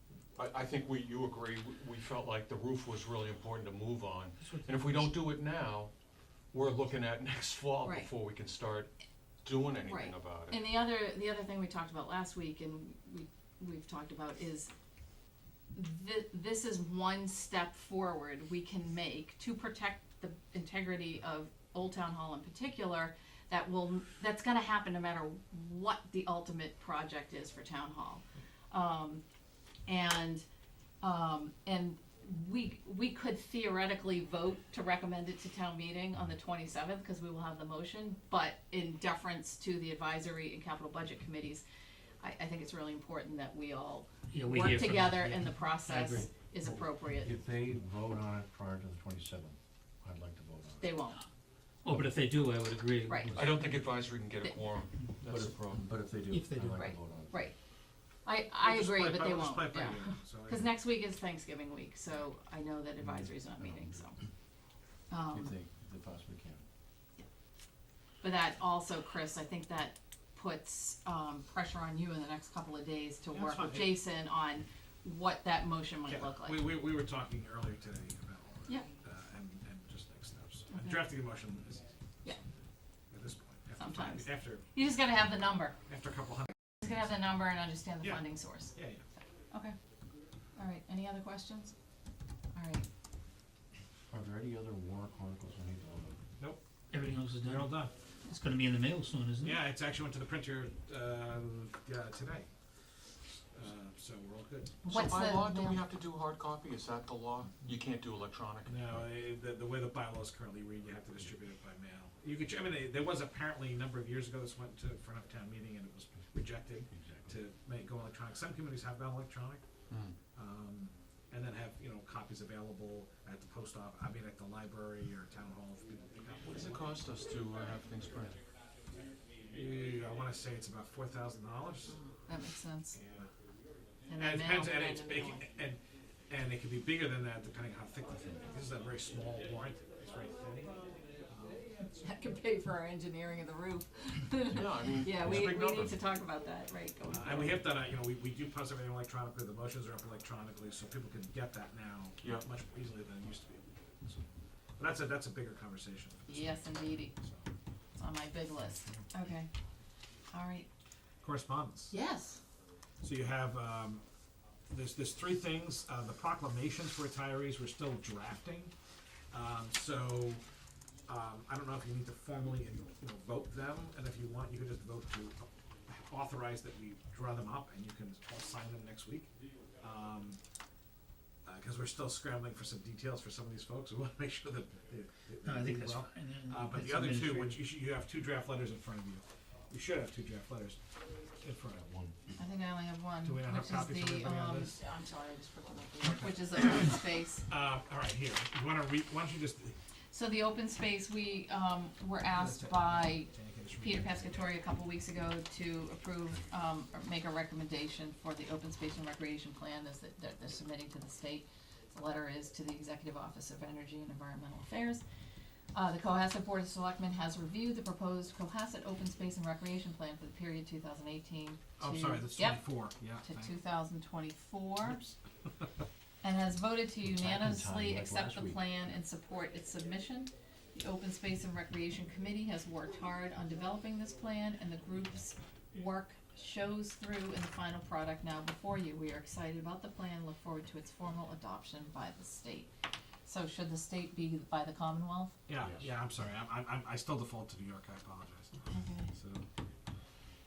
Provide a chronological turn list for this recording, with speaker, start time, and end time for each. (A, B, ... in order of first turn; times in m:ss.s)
0:00.4-0:05.9 A
0:04.4-0:04.8 B
0:06.5-0:08.9 A
0:07.8-0:08.1 C
0:09.4-0:10.7 A
0:09.8-0:14.7 C
0:15.7-0:29.2 C
0:29.9-0:30.4 C
0:31.0-0:41.6 C
0:42.2-0:47.3 C
0:44.3-0:46.3 B
0:47.2-0:51.0 D
0:50.8-0:51.2 C
0:51.8-0:53.7 B
0:53.1-0:53.5 C
0:53.3-0:55.8 A
0:55.2-0:57.5 D
0:56.3-0:57.0 B
0:56.8-0:57.6 C
0:58.2-1:04.2 C
0:58.6-1:00.7 E
1:03.0-1:04.1 D
1:05.1-1:05.6 C
1:05.3-1:06.6 D
1:08.2-1:16.8 C
1:13.3-1:14.0 E
1:16.1-1:21.8 E
1:20.7-1:21.1 C
1:23.1-1:24.6 E
1:23.8-1:25.8 C
1:25.9-1:26.5 E
1:26.8-1:28.8 C
1:28.0-1:29.0 E
1:30.6-1:31.7 C
1:32.5-1:32.8 C
1:34.1-1:36.2 D
1:36.9-1:39.6 B
1:37.4-1:37.9 E
1:39.4-1:42.5 E
1:43.5-1:44.8 E
1:44.8-1:45.8 C
1:44.9-1:49.0 A
1:48.7-1:59.6 E
1:56.9-1:57.3 D
1:59.9-2:00.2 A
2:00.4-2:07.0 E
2:06.4-2:08.4 A
2:09.5-2:12.0 E
2:11.9-2:13.0 C
2:12.9-2:13.3 E
2:14.1-2:15.4 C
2:14.2-2:21.8 E
2:21.8-2:27.6 C
2:24.5-2:26.0 A
2:27.1-2:34.2 E
2:34.8-2:37.5 E
2:36.3-2:37.2 C
2:38.0-2:39.5 C
2:40.3-2:40.7 C
2:41.2-2:42.0 E
2:41.9-2:42.4 C
2:43.0-2:44.0 E
2:44.7-2:48.7 E
2:49.3-2:50.4 E
2:51.1-2:59.3 E
2:59.8-3:00.4 E
3:01.4-3:10.8 E
3:05.4-3:07.6 B
3:11.4-3:12.1 E
3:12.4-3:17.5 C
3:13.2-3:14.8 E
3:16.0-3:16.6 E
3:17.5-3:19.8 E
3:20.1-3:35.0 C
3:22.3-3:24.5 E
3:35.7-3:45.2 C
3:41.8-3:43.6 E
3:46.2-4:02.7 C
3:47.1-3:48.6 D
4:03.3-4:05.4 C
4:05.5-4:09.4 E
4:08.7-4:09.1 C